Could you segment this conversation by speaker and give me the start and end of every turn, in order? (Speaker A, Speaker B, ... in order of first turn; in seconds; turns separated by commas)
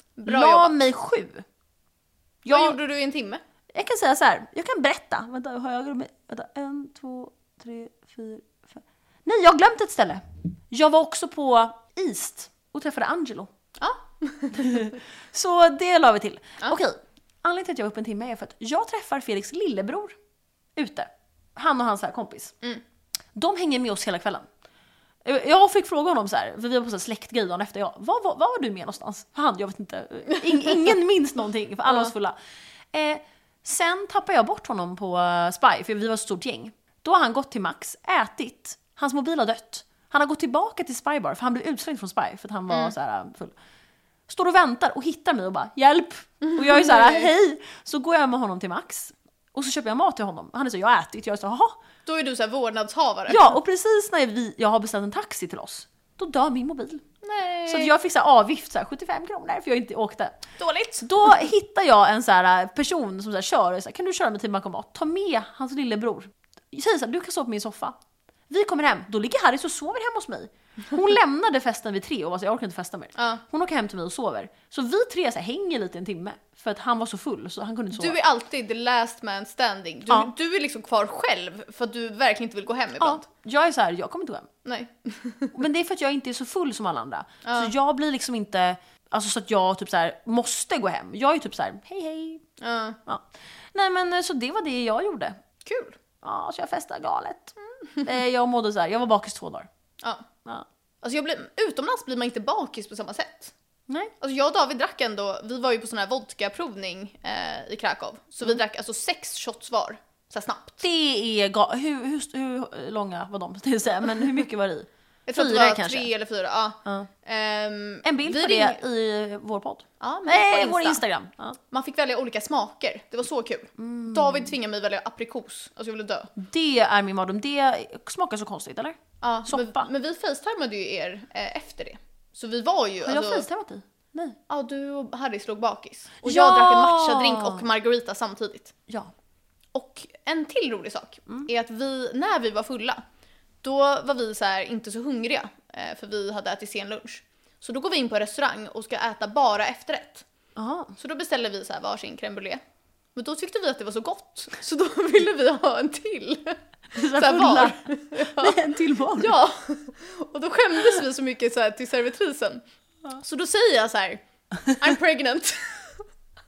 Speaker A: 0.2-0.8, Speaker B: 0.2-1.4, Speaker B: 2.4-2.8, Speaker A: 2.5-3.4, Speaker B: 3.7-13.5, Speaker A: 13.8-14.8, Speaker B: 14.5-20.1, Speaker B: 20.8-22.6, Speaker B: 23.3-24.5, Speaker B: 25.2-32.4, Speaker B: 32.9-43.5, Speaker B: 44.3-51.8, Speaker A: 46.4-47.3, Speaker A: 52.1-53.4, Speaker B: 53.3-57.0, Speaker A: 57.2-57.9, Speaker B: 57.7-60.4, Speaker A: 60.6-61.1, Speaker B: 61.0-68.0, Speaker B: 68.5-78.2, Speaker A: 73.2-73.4, Speaker A: 77.9-83.2, Speaker B: 83.0-84.5, Speaker A: 84.6-85.5, Speaker B: 85.5-92.4, Speaker A: 87.4-87.7, Speaker A: 92.6-93.0, Speaker B: 93.1-95.4, Speaker A: 95.6-96.0, Speaker B: 96.2-99.7, Speaker A: 100.0-100.3, Speaker A: 101.0-103.5, Speaker A: 104.2-110.8, Speaker B: 110.8-116.1, Speaker A: 115.3-118.8, Speaker B: 118.0-121.6, Speaker A: 120.0-121.0, Speaker A: 121.7-126.3, Speaker B: 123.8-124.5, Speaker B: 126.3-129.9, Speaker A: 129.2-133.4, Speaker B: 133.0-134.4, Speaker A: 134.5-138.8, Speaker B: 136.2-137.6, Speaker A: 139.7-143.0, Speaker A: 143.6-150.2, Speaker B: 150.6-150.9, Speaker A: 151.0-152.6, Speaker A: 153.2-158.6, Speaker B: 156.9-159.4, Speaker A: 159.1-162.6, Speaker A: 163.2-164.2, Speaker A: 164.7-166.0